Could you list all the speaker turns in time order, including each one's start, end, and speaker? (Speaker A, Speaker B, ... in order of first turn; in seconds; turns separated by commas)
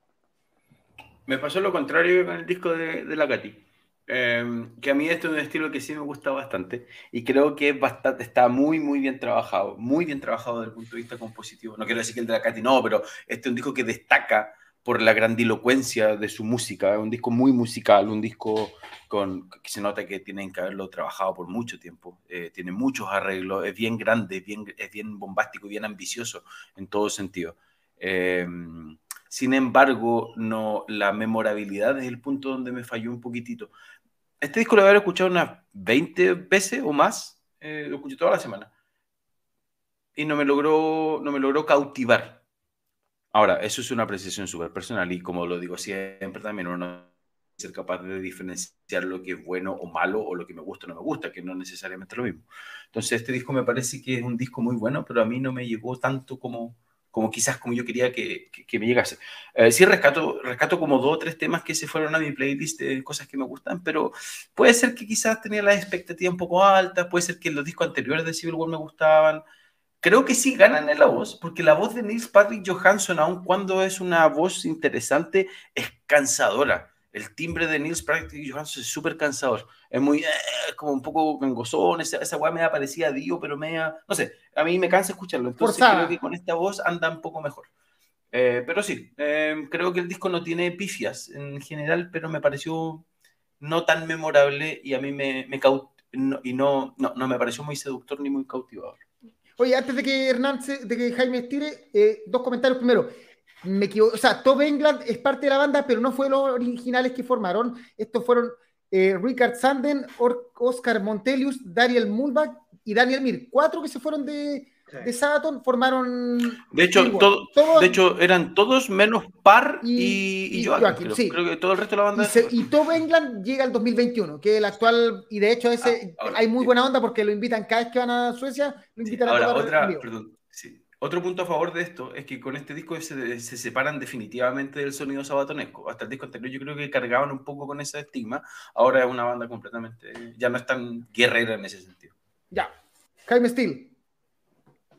Speaker A: 1.3-33.7, Speaker A: 34.4-38.7, Speaker A: 40.1-42.4, Speaker A: 43.3-69.4, Speaker A: 70.0-87.7, Speaker B: 85.6-86.2, Speaker A: 88.3-93.0, Speaker A: 93.6-99.0, Speaker B: 99.6-103.1, Speaker B: 103.6-118.0, Speaker A: 116.7-122.7, Speaker B: 119.8-121.4, Speaker B: 122.2-130.1, Speaker A: 125.8-126.7, Speaker A: 129.1-142.1, Speaker B: 143.3-143.9